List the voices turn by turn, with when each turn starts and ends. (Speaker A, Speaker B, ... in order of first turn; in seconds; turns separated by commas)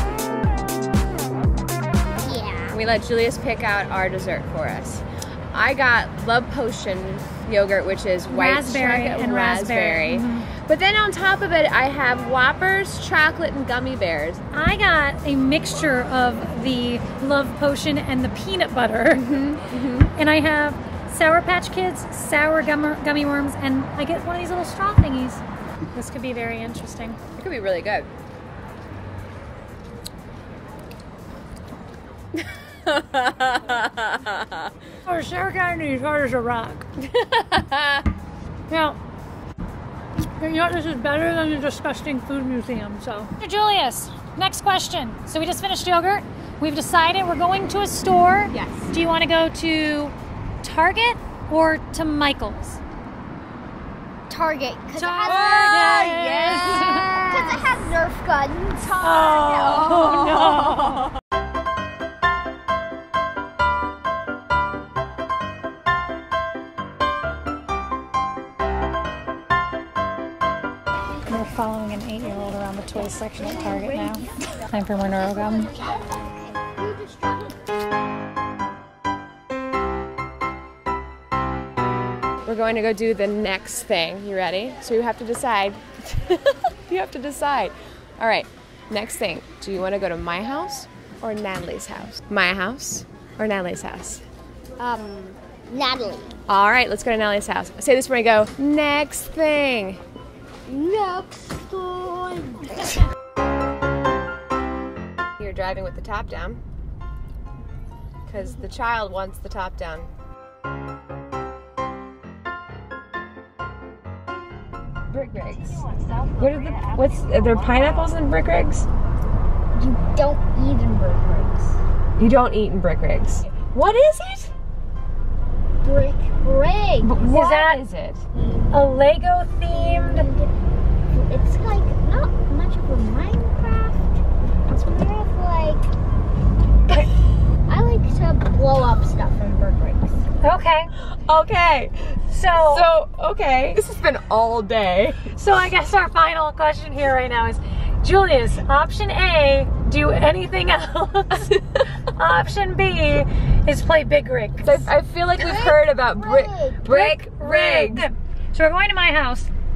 Speaker A: 2.2-2.8, Speaker B: 2.7-14.4, Speaker C: 8.3-10.5, Speaker C: 14.5-19.5, Speaker B: 19.1-20.1, Speaker C: 20.1-25.4, Speaker C: 25.9-27.2, Speaker B: 27.4-28.1, Speaker B: 32.9-34.5, Speaker C: 35.1-36.9, Speaker B: 37.0-38.1, Speaker C: 38.7-39.0, Speaker C: 40.2-52.8, Speaker B: 48.5-48.9, Speaker A: 54.3-55.9, Speaker C: 54.9-57.6, Speaker B: 55.2-57.3, Speaker A: 56.8-59.0, Speaker B: 58.8-61.0, Speaker C: 59.0-61.0, Speaker C: 71.3-75.8, Speaker A: 73.4-77.6, Speaker B: 82.5-94.2, Speaker A: 94.8-96.4, Speaker B: 96.5-100.0, Speaker A: 100.7-103.0, Speaker B: 105.4-106.6, Speaker B: 108.3-110.1, Speaker B: 115.1-115.8, Speaker C: 115.7-118.1, Speaker B: 116.4-118.9, Speaker A: 116.7-117.1, Speaker A: 119.7-121.8, Speaker B: 122.2-124.5, Speaker A: 125.8-127.2, Speaker B: 127.0-128.3, Speaker C: 127.2-127.8, Speaker A: 128.3-128.9, Speaker C: 128.7-130.3, Speaker A: 129.7-130.5, Speaker A: 131.1-134.2, Speaker A: 134.7-135.9, Speaker A: 137.7-140.3, Speaker C: 140.4-140.9, Speaker B: 141.0-145.3, Speaker C: 142.3-142.9, Speaker C: 145.3-154.9, Speaker B: 154.6-158.1, Speaker A: 155.4-156.9, Speaker C: 156.9-159.5